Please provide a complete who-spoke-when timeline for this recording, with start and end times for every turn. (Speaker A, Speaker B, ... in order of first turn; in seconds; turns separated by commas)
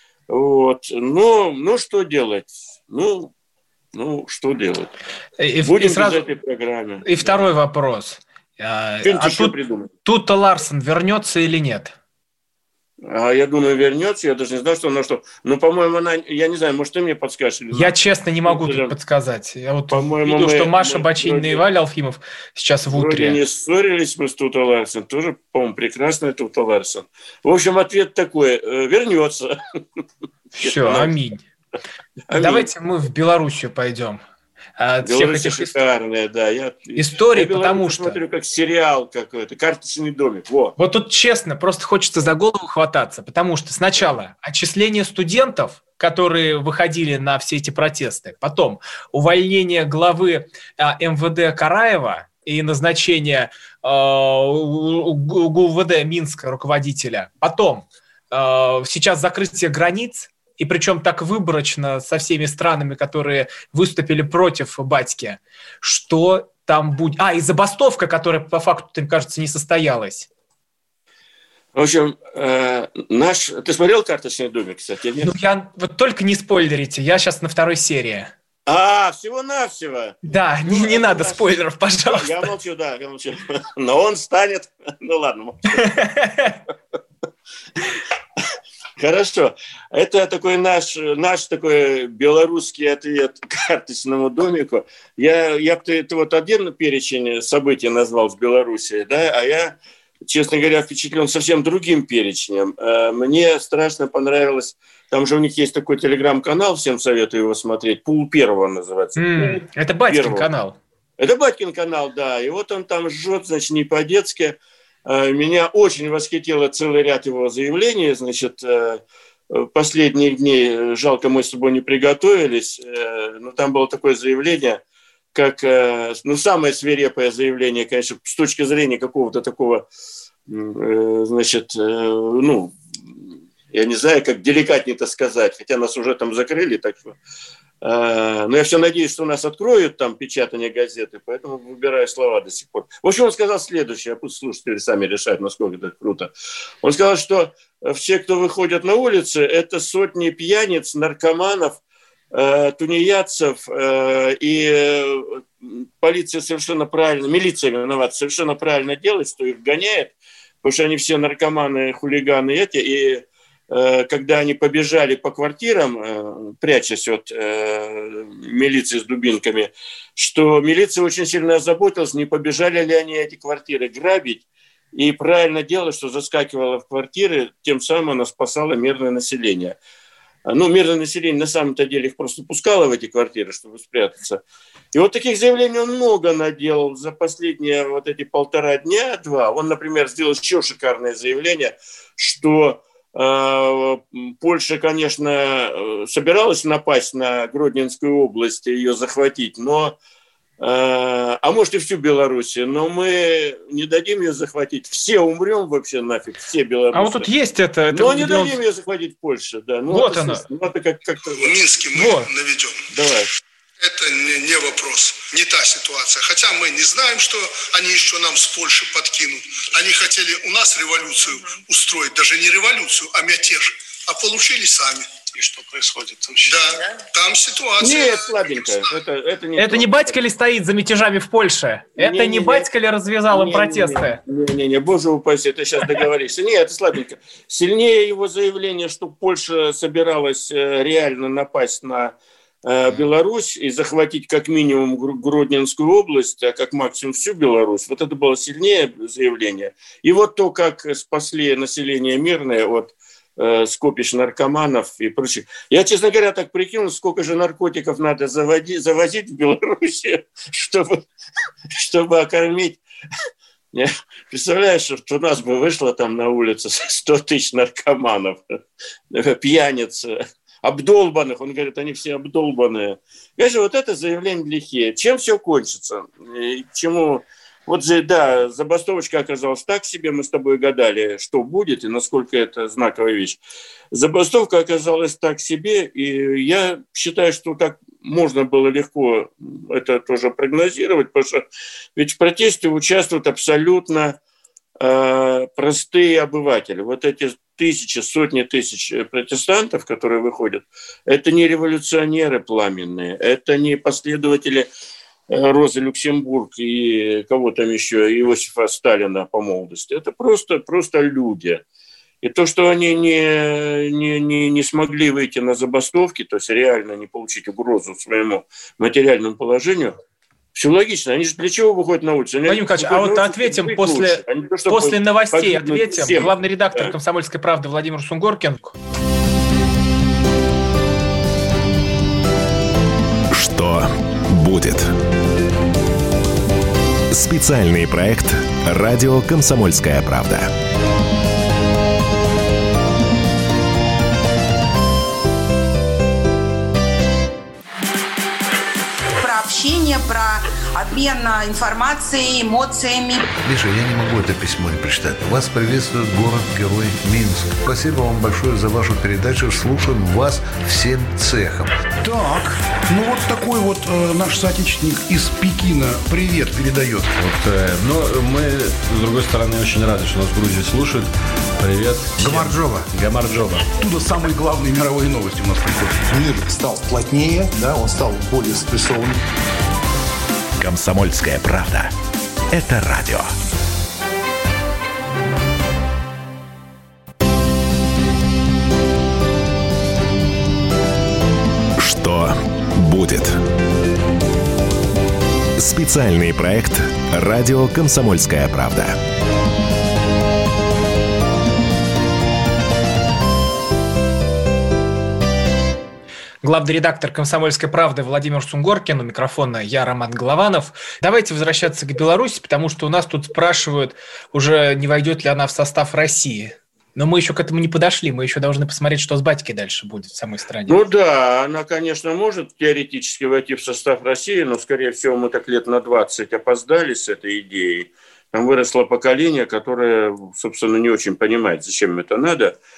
Speaker A: 0.3-3.3, Speaker A: 3.9-4.9, Speaker B: 5.4-6.2, Speaker A: 5.6-7.4, Speaker B: 7.0-11.9, Speaker A: 9.0-9.9, Speaker A: 13.0-18.9, Speaker B: 17.7-23.4, Speaker A: 19.9-21.6, Speaker A: 22.9-29.6, Speaker B: 30.5-31.4, Speaker A: 30.6-31.1, Speaker A: 32.3-32.7, Speaker B: 32.3-34.2, Speaker B: 34.8-35.8, Speaker A: 35.0-40.8, Speaker B: 37.0-38.2, Speaker B: 40.8-70.3, Speaker A: 71.7-75.3, Speaker B: 75.2-78.3, Speaker A: 78.7-81.4, Speaker B: 80.2-82.5, Speaker A: 82.1-86.0, Speaker B: 85.8-86.6, Speaker A: 89.0-110.5, Speaker B: 109.2-110.8, Speaker A: 111.2-124.8, Speaker A: 125.3-129.9, Speaker A: 130.5-137.2, Speaker A: 137.8-151.8, Speaker A: 152.3-179.8, Speaker A: 180.4-199.9, Speaker A: 200.6-207.3, Speaker B: 206.9-208.5, Speaker A: 207.9-211.6, Speaker B: 209.9-210.4, Speaker C: 211.4-212.8, Speaker B: 211.9-212.3, Speaker A: 212.9-213.3, Speaker C: 213.8-228.8, Speaker A: 227.8-230.2, Speaker B: 229.6-234.2, Speaker A: 232.0-232.7, Speaker A: 233.3-261.0, Speaker A: 261.7-262.8, Speaker A: 263.7-268.6, Speaker A: 269.1-283.4, Speaker A: 283.9-294.2, Speaker A: 294.8-304.7, Speaker A: 305.3-311.6, Speaker A: 312.2-320.0, Speaker A: 320.5-326.9, Speaker B: 322.5-328.7, Speaker D: 333.3-334.9, Speaker D: 337.1-340.5, Speaker E: 349.2-353.3, Speaker F: 353.4-361.8, Speaker G: 362.0-367.1, Speaker H: 367.2-373.6, Speaker G: 372.2-372.9, Speaker G: 373.7-376.3, Speaker I: 376.2-379.2, Speaker D: 380.6-381.9, Speaker D: 382.5-383.3, Speaker D: 391.8-393.4, Speaker D: 395.6-399.0, Speaker B: 406.4-420.8, Speaker A: 420.7-432.6